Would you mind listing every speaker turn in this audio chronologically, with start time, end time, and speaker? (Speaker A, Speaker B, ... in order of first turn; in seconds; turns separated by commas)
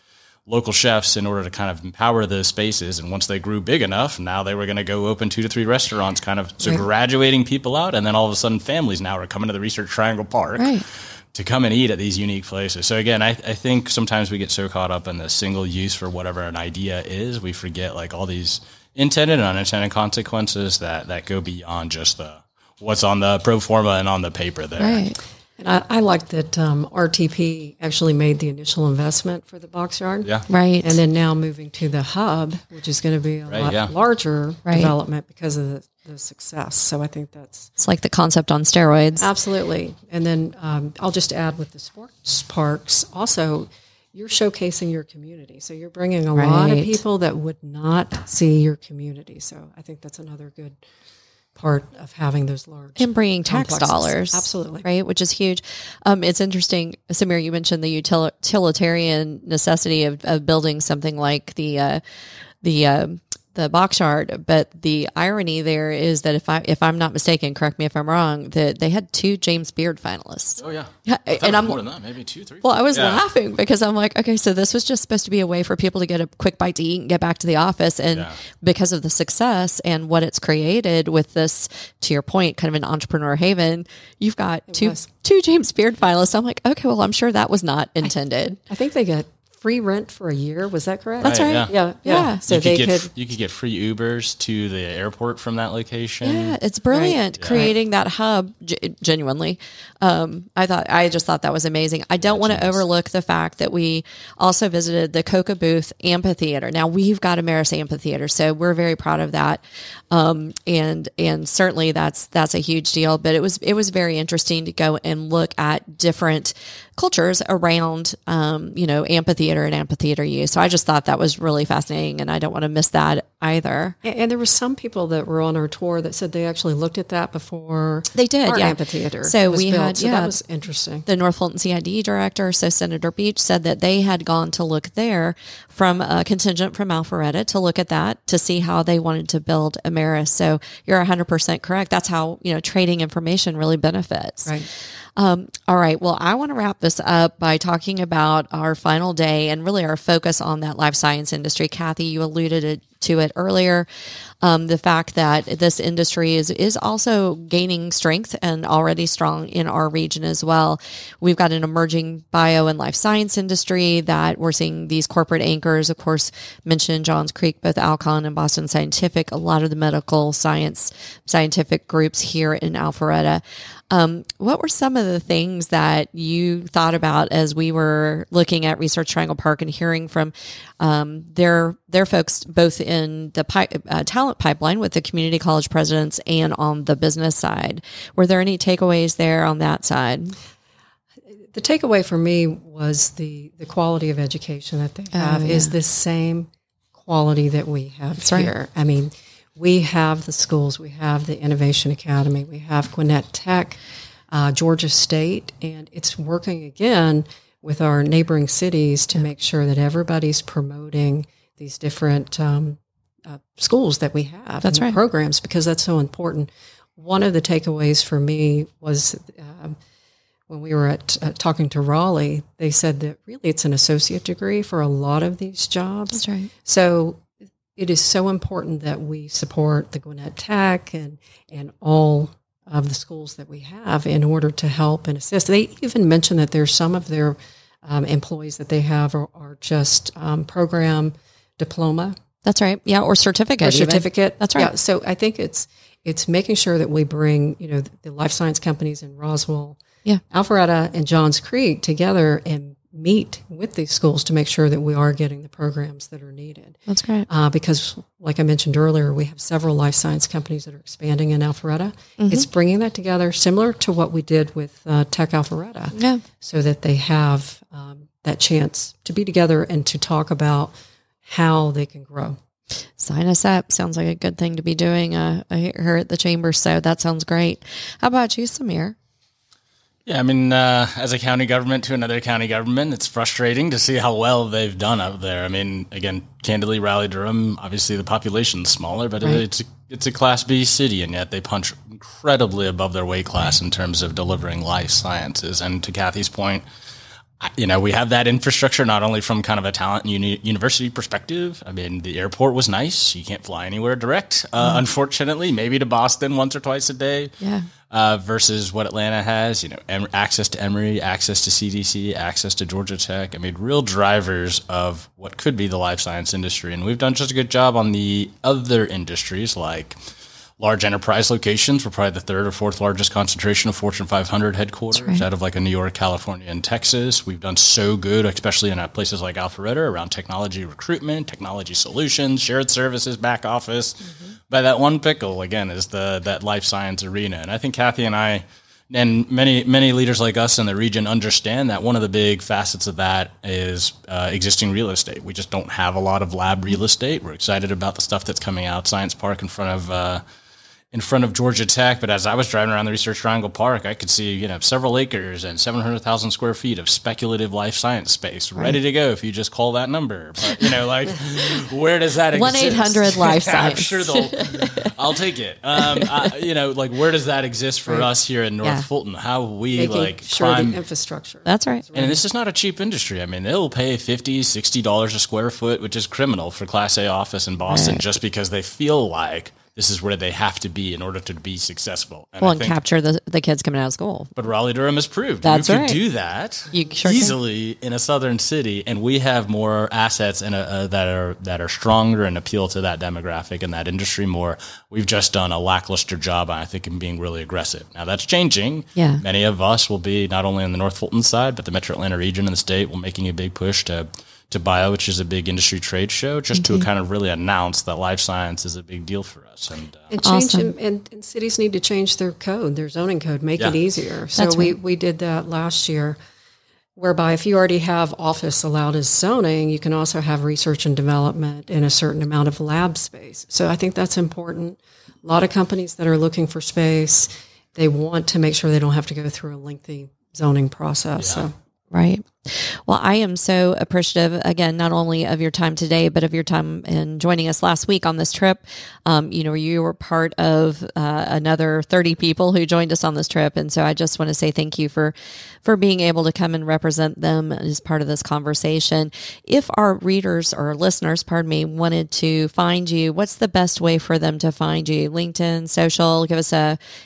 Speaker A: 0.5-25.0, Speaker B: 10.6-10.8, Speaker B: 24.8-25.2, Speaker C: 25.6-37.7, Speaker B: 30.5-31.0, Speaker A: 33.5-33.9, Speaker B: 34.6-34.9, Speaker B: 37.8-39.3, Speaker C: 39.2-50.8, Speaker B: 46.3-47.0, Speaker C: 51.5-54.9, Speaker B: 53.0-62.0, Speaker B: 62.6-71.8, Speaker A: 70.6-73.2, Speaker B: 72.6-88.6, Speaker C: 84.7-85.0, Speaker C: 88.7-93.1, Speaker A: 91.2-96.6, Speaker B: 91.2-92.4, Speaker B: 96.2-124.0, Speaker C: 96.9-97.7, Speaker A: 97.4-97.7, Speaker A: 102.2-102.8, Speaker C: 124.0-131.1, Speaker B: 128.1-130.3, Speaker B: 131.1-153.9, Speaker B: 154.4-190.3, Speaker C: 191.3-219.8, Speaker B: 195.1-195.7, Speaker B: 198.2-198.5, Speaker B: 214.6-215.0, Speaker C: 220.5-242.1, Speaker B: 226.1-226.5, Speaker B: 242.4-244.7, Speaker C: 243.6-270.7, Speaker B: 256.9-257.3, Speaker B: 262.2-262.4, Speaker B: 265.9-266.2, Speaker C: 271.2-272.4, Speaker B: 273.0-278.9, Speaker A: 280.1-296.6, Speaker A: 297.4-307.3, Speaker B: 307.4-307.7, Speaker A: 307.9-320.0, Speaker A: 320.6-350.2, Speaker B: 324.9-325.2, Speaker A: 350.9-370.8, Speaker B: 362.3-364.9, Speaker B: 365.8-366.3, Speaker C: 369.7-372.2, Speaker B: 371.4-371.8, Speaker A: 371.9-382.8, Speaker B: 377.7-378.0, Speaker B: 382.4-384.3, Speaker A: 384.4-410.1, Speaker B: 385.4-386.0, Speaker B: 386.7-387.4, Speaker B: 398.9-399.2, Speaker B: 406.5-406.9, Speaker C: 410.1-416.2, Speaker B: 410.2-410.7, Speaker B: 414.4-414.7, Speaker C: 416.9-431.5, Speaker A: 431.2-431.5, Speaker B: 431.9-456.8